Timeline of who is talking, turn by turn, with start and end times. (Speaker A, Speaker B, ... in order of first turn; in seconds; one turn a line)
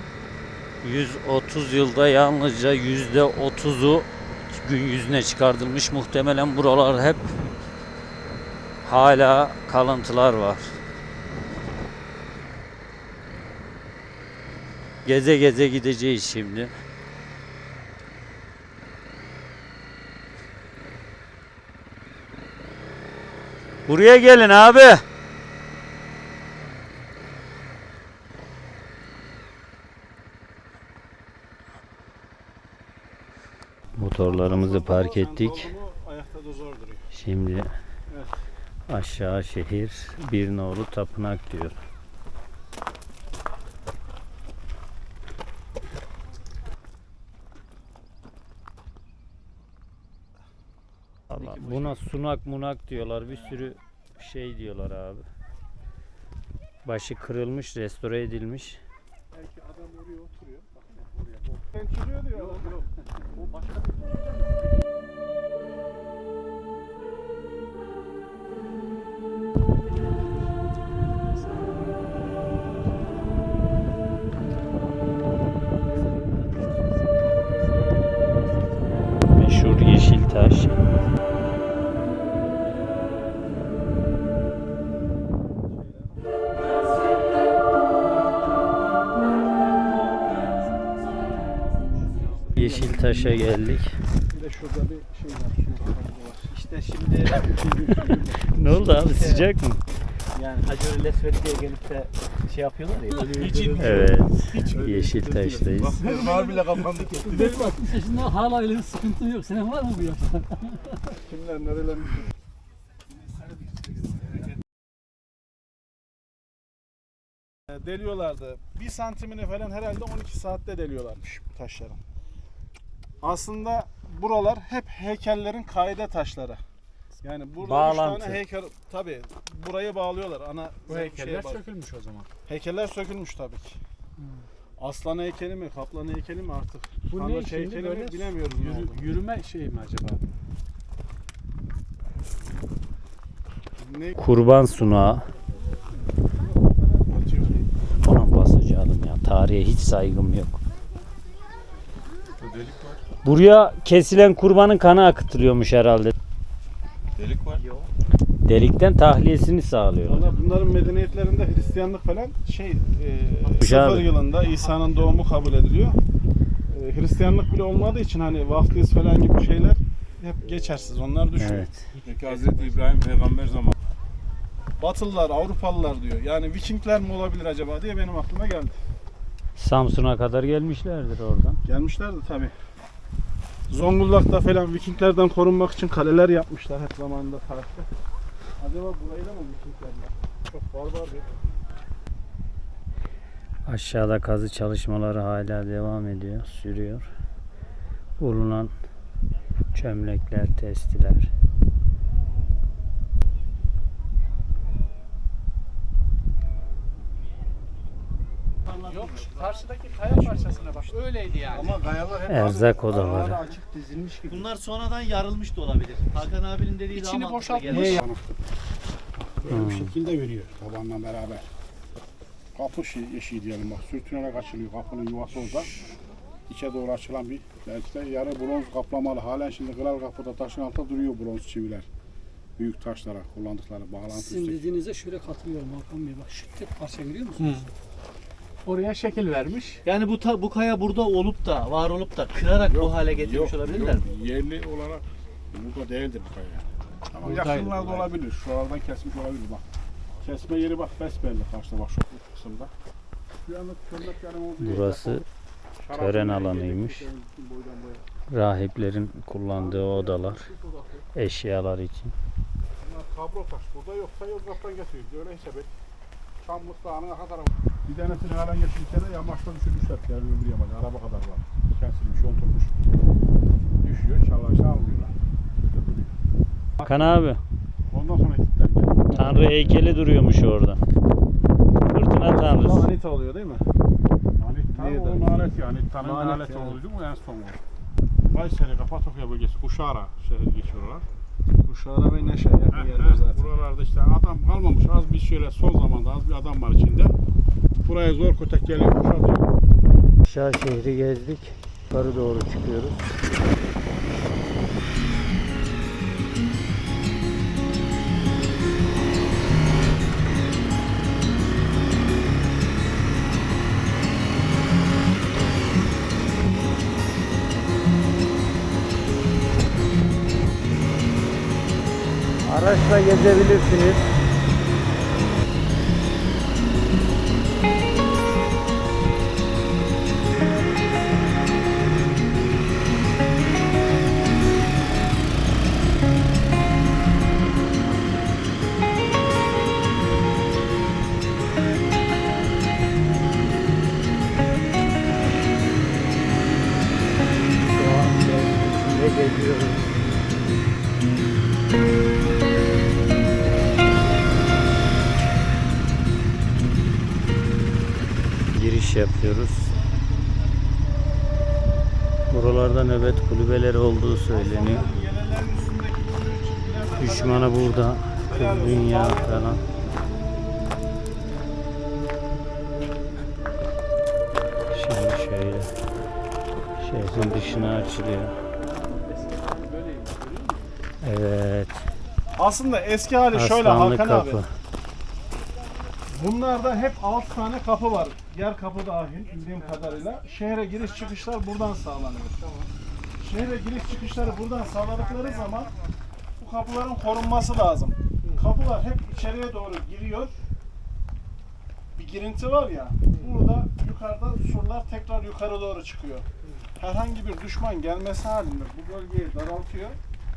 Speaker A: 0.8-7.3
Speaker A: 8.8-10.7
Speaker A: 15.0-16.7
Speaker A: 23.9-25.0
Speaker A: 34.0-35.7
Speaker B: 34.2-37.0
Speaker A: 37.1-37.7
Speaker B: 38.1-38.4
Speaker A: 38.9-41.8
Speaker A: 51.3-55.3
Speaker C: 51.4-52.0
Speaker A: 56.8-58.8
Speaker D: 59.3-61.6
Speaker B: 61.7-62.8
Speaker D: 62.3-62.8
Speaker A: 79.3-80.8
Speaker B: 85.7-86.2
Speaker B: 92.5-93.4
Speaker A: 92.5-94.0
Speaker B: 94.3-96.5
Speaker C: 96.5-99.5
Speaker A: 98.5-99.8
Speaker C: 100.3-104.1
Speaker E: 103.4-103.8
Speaker F: 103.4-103.8
Speaker A: 103.8-106.0
Speaker D: 104.7-105.1
Speaker F: 105.7-107.4
Speaker E: 106.1-106.8
Speaker G: 107.2-110.9
Speaker B: 111.2-112.3
Speaker B: 117.7-122.0
Speaker B: 123.2-126.6
Speaker B: 127.2-131.6
Speaker A: 127.6-128.4
Speaker E: 130.9-132.3
Speaker B: 132.5-133.8
Speaker B: 134.8-139.0
Speaker E: 137.1-140.2
Speaker B: 143.8-144.2
Speaker A: 144.2-145.2
Speaker B: 146.6-147.7
Speaker A: 148.0-150.6
Speaker F: 152.4-153.0
Speaker A: 153.2-156.1
Speaker F: 157.2-157.6
Speaker C: 157.5-157.9
Speaker A: 158.4-160.3
Speaker B: 160.0-166.0
Speaker C: 160.4-161.7
Speaker A: 163.6-164.1
Speaker C: 164.6-165.1
Speaker B: 166.7-171.7
Speaker A: 171.3-171.9
Speaker F: 172.0-173.7
Speaker B: 174.8-178.8
Speaker A: 179.6-181.6
Speaker B: 181.6-182.5
Speaker B: 183.7-187.9
Speaker B: 188.6-191.2
Speaker A: 193.7-197.1
Speaker A: 198.2-198.7
Speaker A: 199.7-201.3
Speaker C: 208.7-209.5
Speaker E: 208.8-211.9
Speaker C: 210.1-210.6
Speaker B: 211.5-213.6
Speaker A: 212.3-213.4
Speaker C: 213.4-218.0
Speaker E: 216.9-218.0
Speaker D: 217.8-218.2
Speaker D: 219.4-221.5
Speaker A: 219.5-219.9
Speaker D: 222.5-225.7
Speaker D: 226.5-231.9
Speaker D: 232.6-234.7
Speaker G: 234.1-237.5
Speaker E: 237.3-237.7
Speaker E: 238.6-239.8
Speaker C: 239.8-244.1
Speaker D: 242.4-249.6
Speaker E: 247.2-247.8
Speaker B: 247.5-248.0
Speaker D: 250.2-252.7
Speaker D: 253.4-255.2
Speaker A: 254.6-255.2
Speaker D: 255.8-258.0
Speaker A: 255.9-257.1
Speaker A: 258.3-260.5
Speaker B: 259.6-260.5
Speaker D: 259.6-261.0
Speaker A: 261.1-262.1
Speaker D: 262.8-265.7
Speaker D: 266.4-272.7
Speaker D: 273.8-276.1
Speaker A: 276.8-277.4
Speaker D: 277.9-279.8
Speaker A: 279.1-280.8
Speaker A: 281.9-282.9
Speaker B: 282.3-283.6
Speaker D: 284.4-287.6
Speaker B: 284.7-285.2
Speaker B: 286.0-286.8
Speaker D: 288.3-291.1
Speaker B: 291.6-293.4
Speaker D: 292.7-297.1
Speaker D: 297.8-299.5
Speaker A: 300.2-303.0
Speaker A: 322.4-324.1
Speaker A: 347.6-349.9
Speaker A: 358.5-359.8
Speaker A: 362.3-364.9
Speaker B: 364.3-369.6
Speaker A: 367.0-369.6
Speaker A: 374.7-375.7
Speaker A: 376.8-378.3
Speaker B: 377.1-377.7
Speaker E: 378.7-380.6
Speaker A: 381.0-381.8
Speaker B: 382.4-384.4
Speaker A: 383.3-384.5
Speaker B: 386.1-392.4
Speaker E: 392.4-392.7
Speaker B: 393.2-395.7
Speaker B: 396.4-400.4
Speaker B: 401.9-410.0
Speaker E: 403.1-403.4